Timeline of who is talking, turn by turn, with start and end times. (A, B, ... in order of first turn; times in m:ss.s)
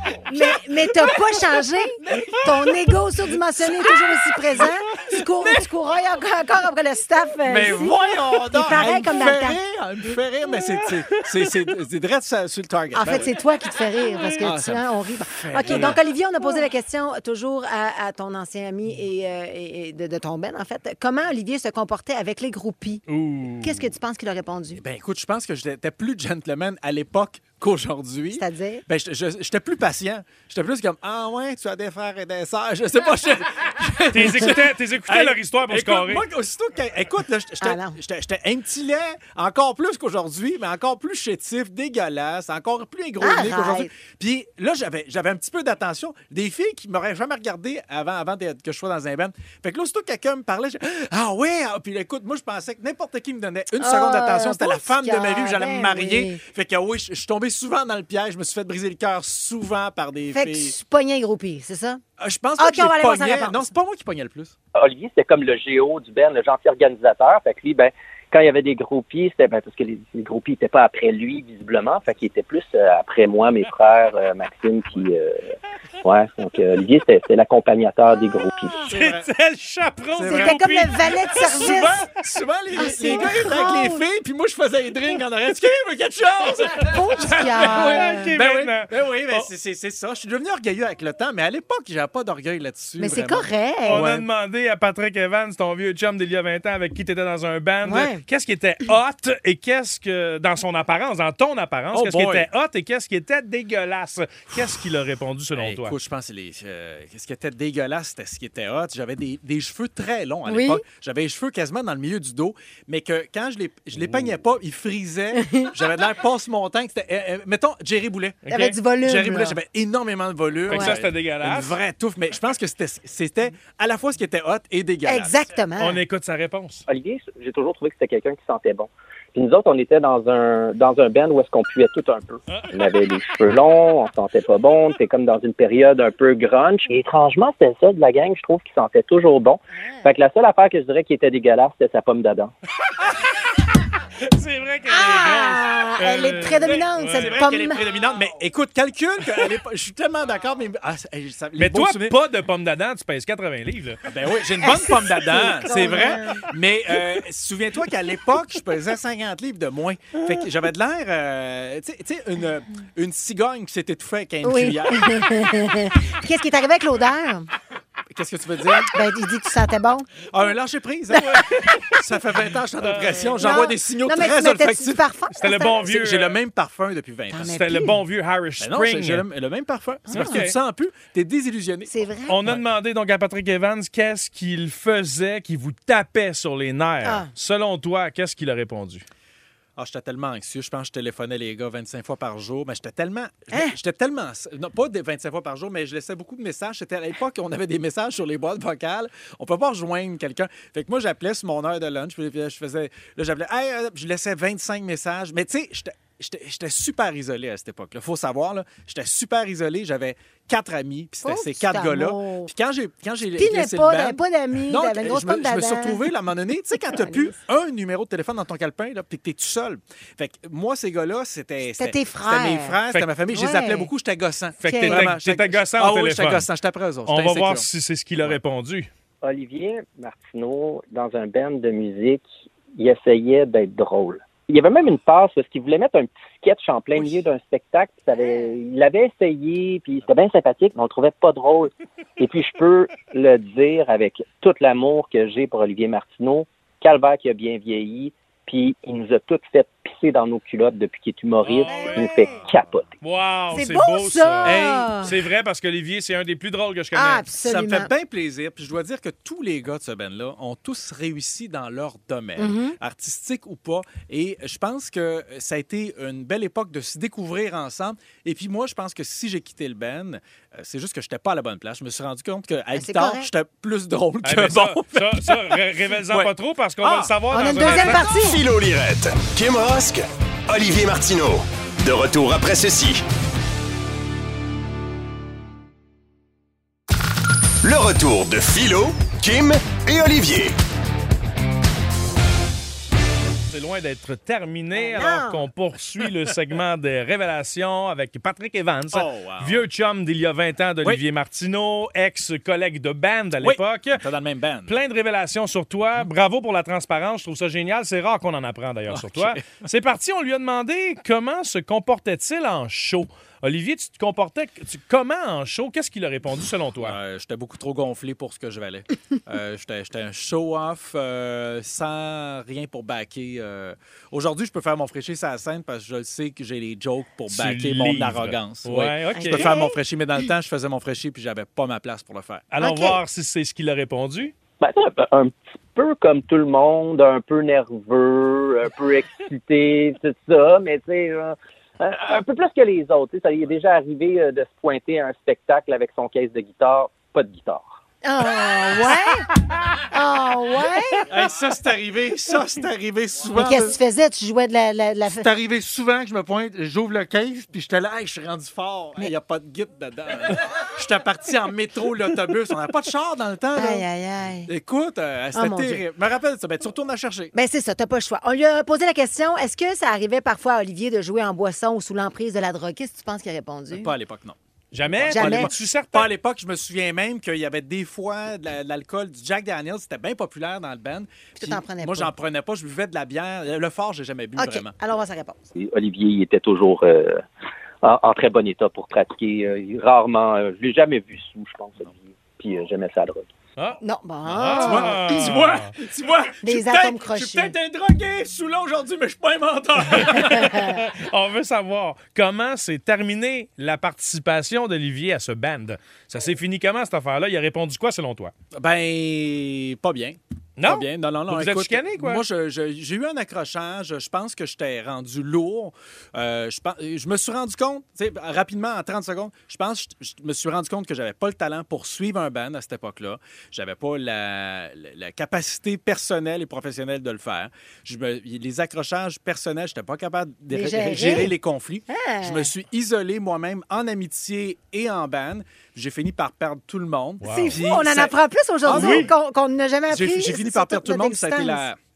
0:00.3-0:08.0 A
0:02.0-0:03.0 B
0:07.4-0:13.3 B
0:08.5-0:09.6 A
0:12.9-0:23.0 A
0:14.4-0:16.0 B
0:15.6-0:15.9 C
0:23.1-0:23.9 C
0:23.6-0:24.8 A
0:24.8-1:00.7 B
0:28.3-0:28.8 A
0:34.1-0:36.2 C
0:37.6-0:38.0 A
0:43.2-0:43.9 A
0:53.8-0:56.4 A
1:00.3-1:02.0 A
1:02.2-1:04.5 B
1:02.6-1:03.6 A
1:04.8-1:15.4 D
1:16.0-1:18.9 D
1:18.9-1:19.3 B
1:18.9-1:21.8 C
1:20.1-1:20.6 B
1:20.3-1:22.0 A
1:21.3-1:34.2 B
1:22.8-1:24.0 A
1:26.8-1:28.3 A
1:27.3-1:29.5 C
1:33.0-1:34.0 A
1:33.8-1:45.9 C
1:37.8-1:38.2 A
1:41.9-1:42.5 B
1:45.5-1:58.4 B
1:50.4-1:50.8 A
1:55.3-1:55.7 A
1:58.4-1:58.8 C
1:58.5-1:59.6 A
1:59.0-2:05.4 B
2:00.7-2:01.7 C
2:00.7-2:00.9 A
2:05.0-2:06.0 A
2:05.8-2:06.8 C
2:06.9-2:22.5 D
2:19.7-2:20.1 A
2:24.2-2:27.4 C
2:24.9-2:27.8 A
2:27.1-2:32.2 B
2:31.6-2:34.0 C
2:34.0-2:45.2 B
2:34.6-2:36.4 A
2:44.4-2:47.5 A
2:48.1-2:48.9 B
2:48.8-2:50.1 A
2:50.3-2:55.0 B
2:51.1-2:51.8 A
2:51.2-2:51.7 C
2:52.8-2:53.4 C
2:53.4-2:55.8 A
2:55.4-2:56.4 C
2:55.8-2:57.6 B
2:57.3-2:58.0 A
2:57.5-2:59.2 C
2:58.6-3:02.6 B
3:00.1-3:00.4 A
3:00.1-3:00.5 C
3:01.9-3:02.4 A
3:02.3-3:09.0 C
3:07.0-3:07.3 A
3:09.8-3:47.6 B
3:31.2-3:32.5 A
3:33.4-3:36.0 A
3:36.8-3:37.4 A
3:41.8-3:42.8 A
3:43.3-3:43.9 A
3:44.6-3:46.4 C
3:44.6-3:45.0 A
3:47.1-3:48.9 C
3:49.2-4:12.9 D
3:58.1-3:58.6 A
4:11.4-4:12.3 C
4:11.7-4:12.2 A
4:12.2-4:12.6 B
4:13.0-4:17.2 C
4:13.5-4:15.1 A
4:14.4-4:15.1 B
4:16.9-4:17.9 A
4:17.4-4:37.1 B
4:22.4-4:22.8 A
4:32.7-4:33.3 A
4:34.2-4:38.0 C
4:37.3-4:38.4 A
4:37.7-4:43.0 E
4:47.6-4:50.5 E
4:53.5-5:04.0 C
4:54.7-4:55.4 A
4:58.9-4:59.6 B
5:03.4-5:04.8 B
5:04.7-5:17.0 C
5:08.9-5:09.6 B
5:16.8-5:32.5 B
5:27.3-5:29.5 C
5:29.1-5:29.7 A
5:32.5-5:34.3 C
5:32.6-5:33.0 A
5:34.6-5:47.8 D
5:48.0-5:49.3 A
5:49.9-5:51.1 A
5:51.1-5:53.8 B
5:53.3-5:55.3 A
5:55.1-6:03.8 B
6:03.6-6:04.5 A
6:04.4-6:07.3 B
6:05.3-6:05.8 A
6:07.3-6:13.9 A
6:13.7-6:24.7 B
6:14.7-6:16.1 C
6:15.1-6:15.5 A
6:21.4-6:22.1 A
6:24.4-6:25.4 A
6:25.5-6:27.2 D
6:27.8-6:33.3 D
6:33.6-6:35.7 C
6:33.8-6:35.2 A
6:34.6-6:40.7 B
6:36.4-6:37.5 A
6:39.9-6:48.3 C
6:40.3-6:40.7 A
6:48.5-7:19.1 B
6:50.6-6:52.2 C
7:10.5-7:11.3 A
7:11.9-7:12.5 A
7:17.2-7:17.6 C
7:17.3-7:21.6 A
7:18.7-7:19.1 C
7:19.9-7:21.8 B